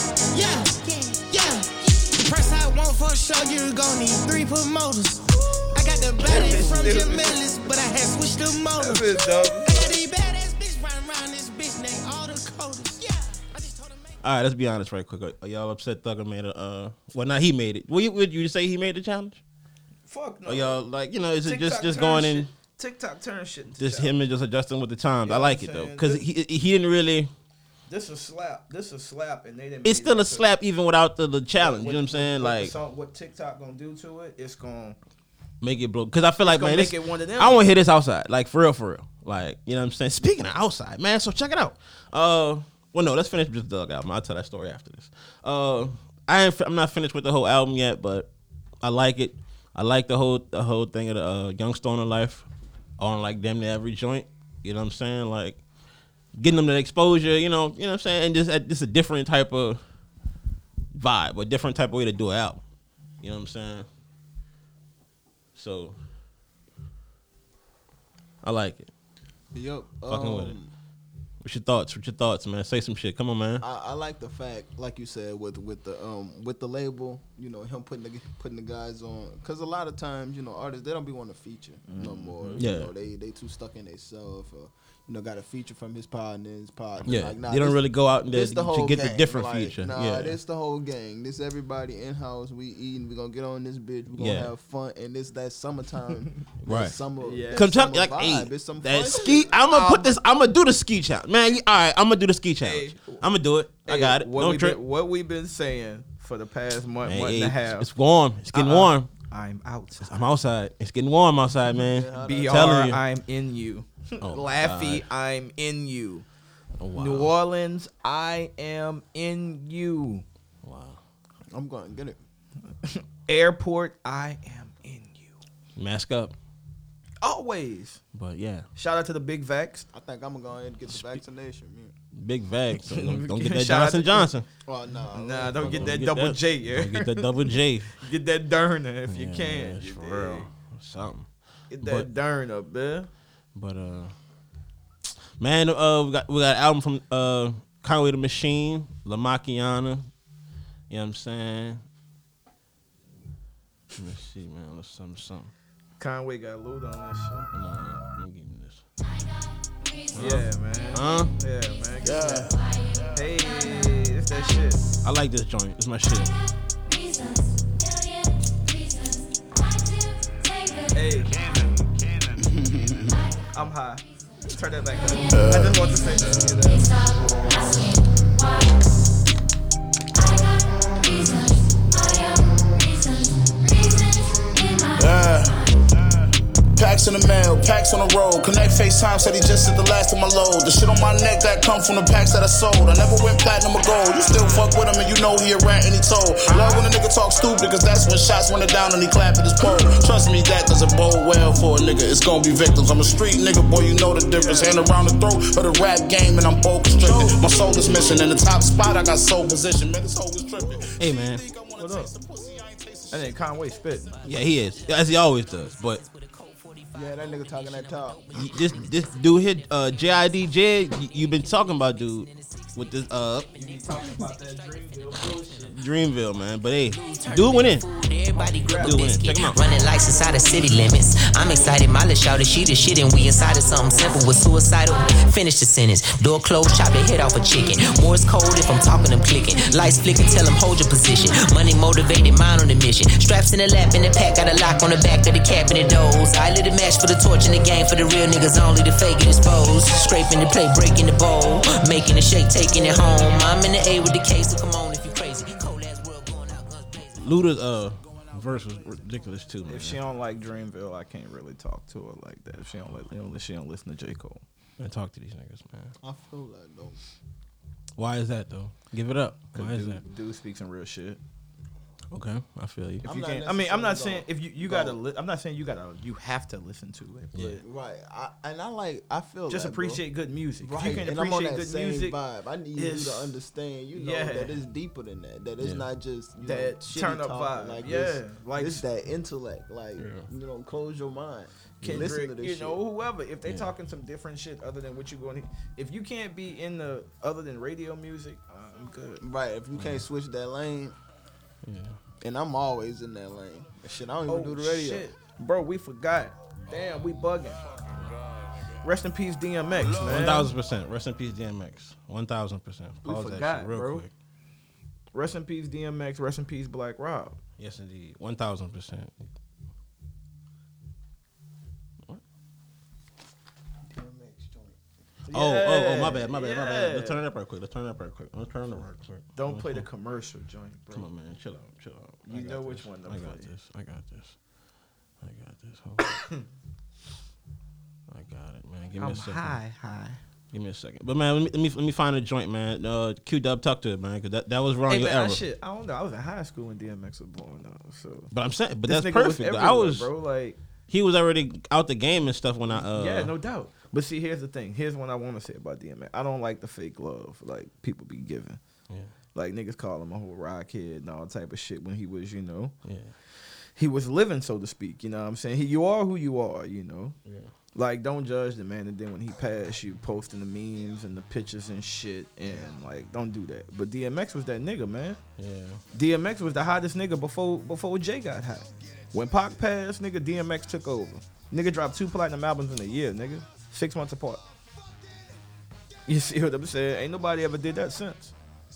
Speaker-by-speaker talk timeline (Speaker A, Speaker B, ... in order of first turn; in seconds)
Speaker A: 0.3-14.1
Speaker B: 6.2-7.5, 8.8-10.0, 20.1-20.8, 21.4-24.2, 25.2-26.2, 27.9-30.5, 31.6-35.0, 36.4-37.7, 81.9-82.7, 97.2-97.7, 99.1-100.2, 102.6-103.2, 103.8-107.9, 108.5-110.3, 112.2-116.2, 117.0-120.2, 122.8-125.4, 127.2-128.0, 128.8-129.9, 132.9-134.3, 135.1-137.3, 138.0-140.5, 141.7-143.1, 156.0-157.5, 160.1-162.6, 163.1-164.8, 170.9-171.3, 173.5-176.9, 204.4-204.8, 207.0-208.1, 211.8-212.1, 213.1-214.2, 223.5-225.8, 227.2-227.7, 228.3-229.1, 259.7-264.4, 269.5-271.2, 273.0-277.6, 279.5-282.2, 282.8-283.3, 283.9-284.6, 286.4-288.8, 291.8-299.2, 304.3-307.6, 308.8-310.5, 313.0-314.1, 315.1-317.4, 325.3-327.2, 329.4-331.1, 332.2-333.5, 339.0-340.2, 344.9-348.3, 348.8-350.6, 352.7-358.6, 359.4-362.7, 363.8-367.1, 367.8-375.2, 375.9-384.4, 386.1-388.3
Speaker C: 6.3-7.2, 14.2-19.4, 20.5-22.5, 23.8-27.3, 29.9-32.7, 35.6-48.3, 48.8-52.5, 53.0-55.6, 56.4-59.8, 60.9-62.6, 63.2-63.9, 65.5-66.0, 68.4-68.9, 70.1-70.6, 71.4-73.7, 82.6-82.9, 87.0-90.4, 94.2-94.5, 96.6-97.0, 97.5-104.8, 107.0-109.1, 110.0-113.0, 114.2-115.1, 116.8-117.3, 120.6-121.0, 125.8-126.3, 128.1-128.7, 132.1-134.5, 135.6-138.0, 139.1-141.3, 141.8-142.1, 143.6-144.1, 145.4-150.1, 150.9-151.8, 154.0-155.5, 157.5-158.8, 160.1-161.3, 165.0-166.3, 211.0-211.4, 214.2-216.0, 218.3-223.5, 225.7-227.9, 228.8-229.7, 257.1-260.0, 264.8-265.9, 268.0-270.0, 272.1-273.1, 277.4-277.6, 285.6-285.9, 290.0-290.3, 291.8-292.1, 293.5-293.7, 299.8-300.0, 301.6-302.0, 309.9-314.1, 317.6-319.1, 325.3-329.9, 330.9-334.4, 335.2-336.2, 338.1-339.6, 340.5-345.4, 348.3-350.1, 350.9-353.3, 362.9-363.1, 375.4-375.8
Speaker D: 69.5-70.7, 73.6-99.6, 111.8-112.9, 121.5-122.2, 129.9-131.9, 134.7-136.1, 162.0-162.6, 172.6-173.0, 216.9-218.3, 266.0-267.0, 273.0-275.0, 277.6-280.0, 280.6-292.8, 299.2-301.0, 302.2-305.1, 323.9-324.8
Speaker E: 171.5-172.3, 175.3-175.8, 185.0-185.6, 186.8-213.3
Speaker F: 227.9-256.8